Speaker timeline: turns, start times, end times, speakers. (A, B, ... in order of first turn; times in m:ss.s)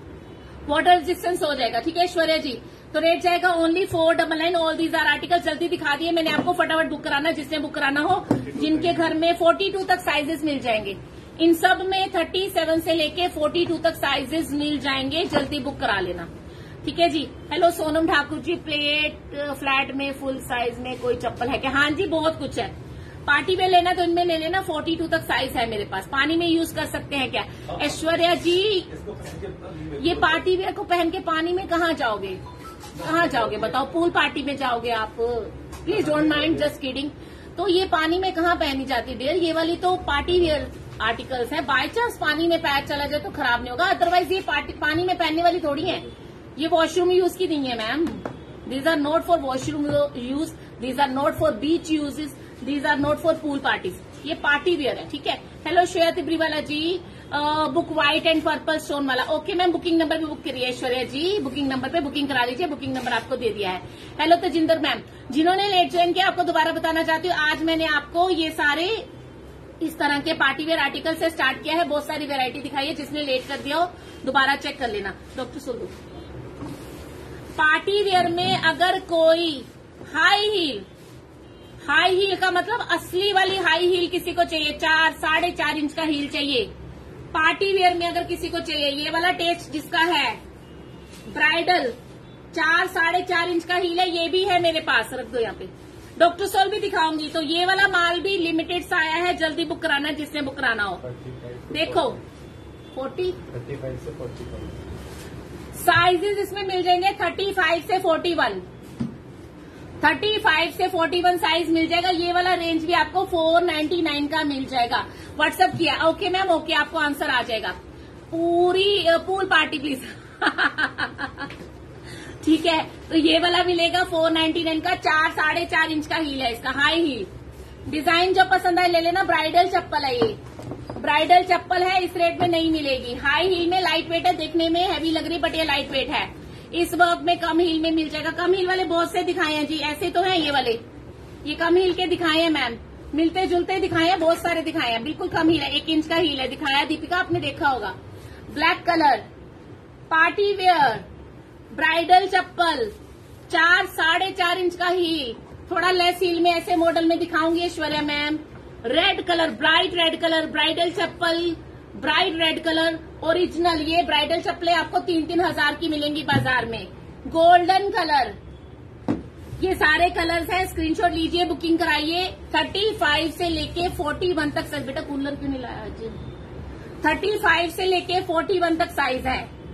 0:00.6-0:16.3 A
0:08.4-0:09.1 B
0:16.8-0:22.7 A
0:23.2-0:28.9 A
0:27.7-0:28.0 B
0:28.9-0:30.5 B
0:30.0-0:32.4 A
0:33.0-0:33.8 B
0:33.0-0:46.0 A
0:35.9-0:36.7 B
0:46.6-1:09.1 A
1:09.8-1:15.9 A
1:17.6-1:20.8 A
1:21.9-1:26.7 A
1:27.3-1:30.4 A
1:31.3-1:32.0 A
1:32.5-1:41.0 A
1:41.0-1:42.2 B
1:41.7-1:42.2 A
1:43.0-1:43.4 A
1:43.5-1:44.8 B
1:45.7-1:48.6 A
1:50.0-1:57.7 A
1:58.3-2:01.5 A
2:02.4-2:07.3 A
2:07.9-2:10.4 A
2:11.0-2:20.8 A
2:21.4-2:27.9 A
2:28.5-2:29.2 A
2:30.1-2:31.0 A
2:31.7-2:32.9 A
2:33.5-2:48.4 A
2:49.6-2:56.2 A
2:57.0-2:59.5 A